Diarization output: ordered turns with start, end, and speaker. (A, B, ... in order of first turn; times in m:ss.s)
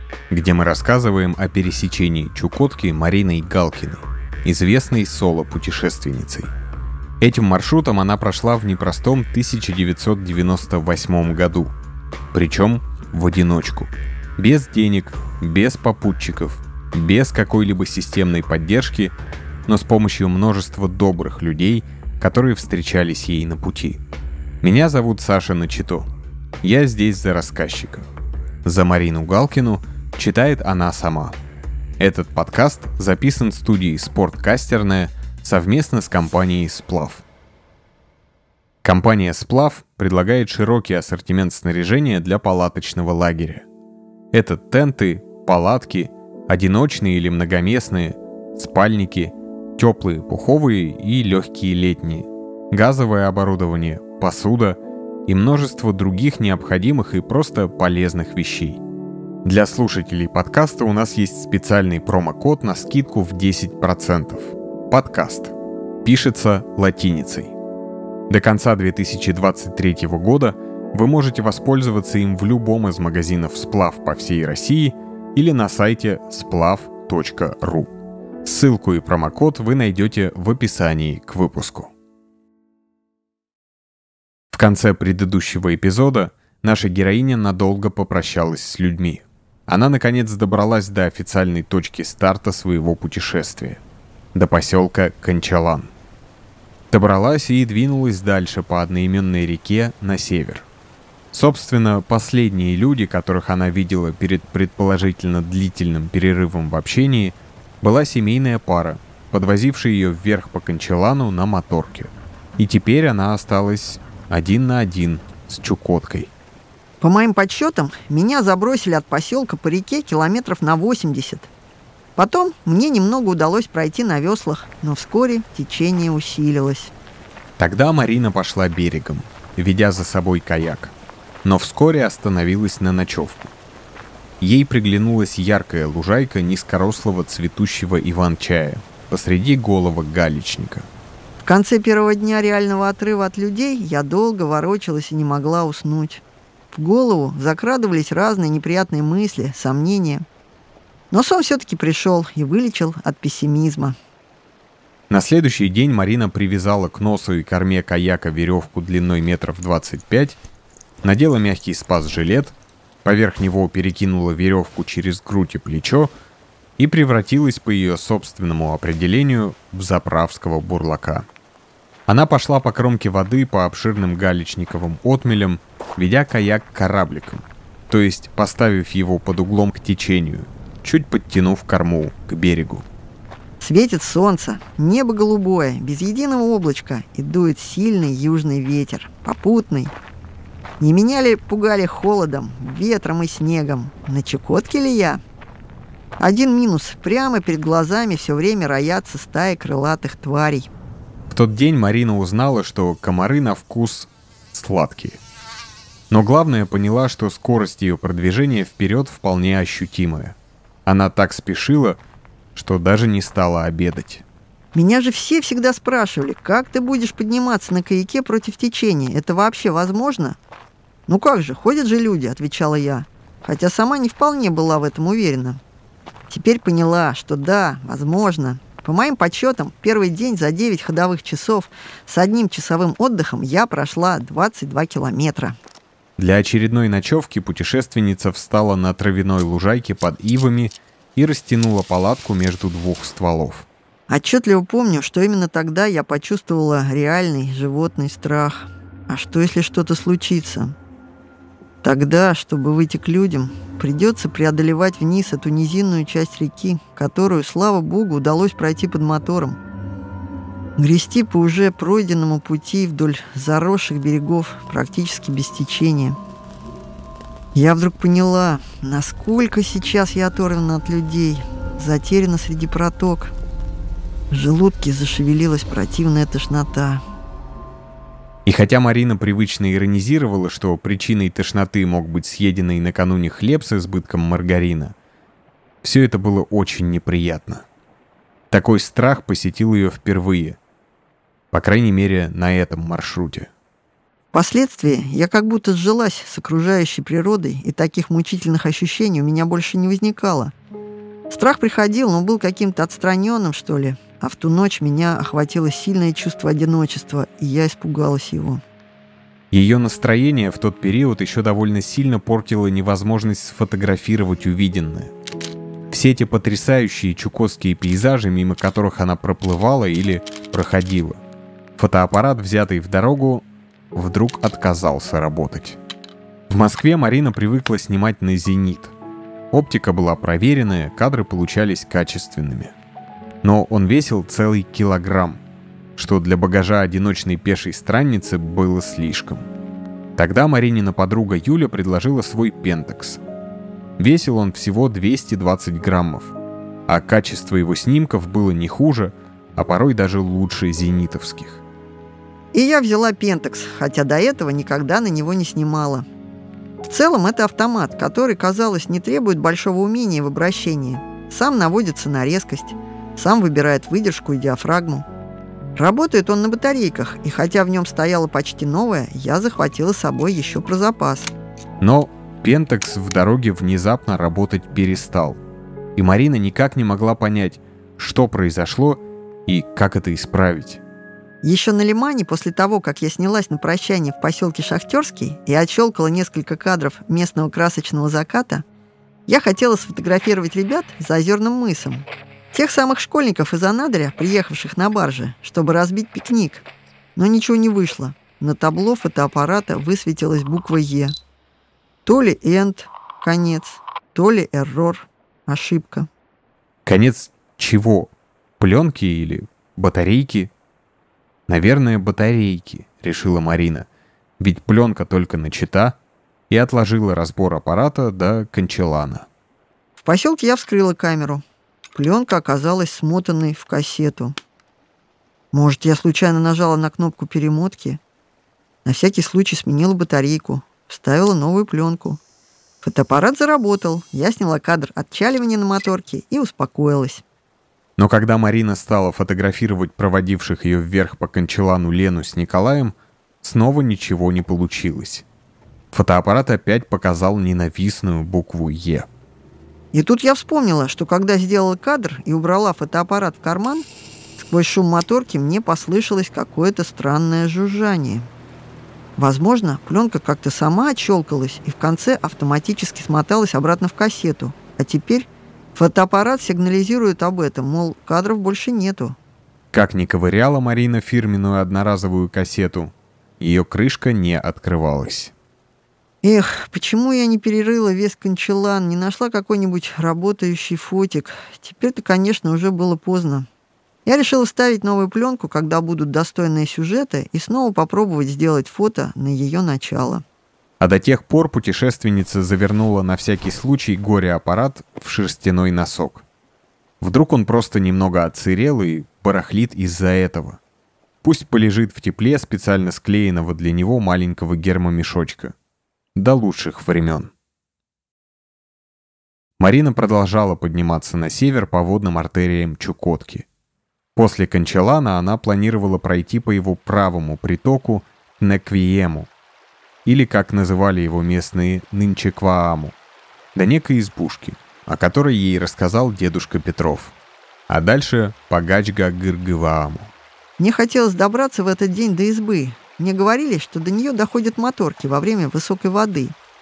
0:00.3-0:06.5 A
0:07.2-0:11.7 A
0:12.3-0:19.1 A
0:19.7-0:24.0 A
0:24.6-0:26.1 A
0:26.6-0:28.1 A
0:28.6-0:31.4 A
0:32.0-0:37.2 A
0:38.8-0:43.6 A
0:44.3-0:58.8 A
0:59.4-1:07.5 A
1:08.3-1:17.9 A
1:18.4-1:21.9 A
1:24.5-1:33.8 A
1:34.3-1:35.9 A
1:36.9-1:40.6 A
1:41.3-1:56.3 A
1:57.0-2:01.5 B
2:02.2-2:06.9 B
2:07.6-2:13.5 A
2:14.4-2:20.9 A
2:21.4-2:30.2 B
2:31.1-2:34.0 B
2:35.1-2:40.4 A
2:41.0-2:46.1 A
2:46.8-2:51.3 A
2:52.1-3:02.8 A
3:03.6-3:09.9 B
3:10.8-3:15.2 B
3:16.2-3:20.7 B
3:21.3-3:25.2 A
3:26.1-3:32.0 A
3:32.5-3:34.2 A
3:34.7-3:40.4 B
3:41.1-3:45.6 B
3:46.3-3:55.6 B
3:56.2-4:03.7 A
4:04.1-4:10.7 B
4:11.8-4:19.6 B
4:20.8-4:26.2 B
4:27.5-4:33.3 B
4:34.3-4:37.0 B
4:38.4-4:44.9 A
4:45.8-4:47.6 A
4:48.5-4:50.6 A
4:51.5-4:53.5 A
4:54.3-5:00.5 B
5:01.3-5:08.6 B
5:09.5-5:15.1 A
5:15.9-5:21.2 A
5:21.8-5:25.8 A
5:26.5-5:28.9 A
5:29.5-5:32.7 A
5:33.4-5:35.4 A
5:36.0-5:39.4 A
5:40.2-5:43.2 A
5:44.0-5:46.3 A
5:46.9-5:51.6 A
5:52.5-5:56.0 B
5:56.8-6:05.0 B
6:05.7-6:11.3 B
6:11.8-6:15.4 A
6:16.0-6:20.8 A
6:21.4-6:28.6 B
6:29.3-6:36.6 B
6:37.2-6:41.1 B
6:42.0-6:46.1 B
6:46.8-6:50.5 A
6:51.5-6:53.9 A
6:54.4-6:56.0 A
6:56.5-6:59.3 A
7:00.0-7:01.4 B
7:01.9-7:04.4 B
7:05.5-7:08.0 B
7:08.8-7:12.2 B
7:12.8-7:17.2 B
7:18.0-7:25.2 A
7:25.9-7:29.1 A
7:29.9-7:33.8 B
7:34.4-7:38.3 B
7:39.2-7:49.2 B
7:49.7-7:55.3 A
7:56.2-8:03.5 B
8:04.0-8:10.2 B
8:10.8-8:16.2 A
8:17.0-8:20.6 A
8:21.2-8:25.5 A
8:26.1-8:27.3 A
8:29.6-8:33.4 A
8:34.2-8:39.3 A
8:40.0-8:42.9 A
8:43.5-8:47.1 A
8:47.7-8:50.1 A
8:50.6-8:56.4 B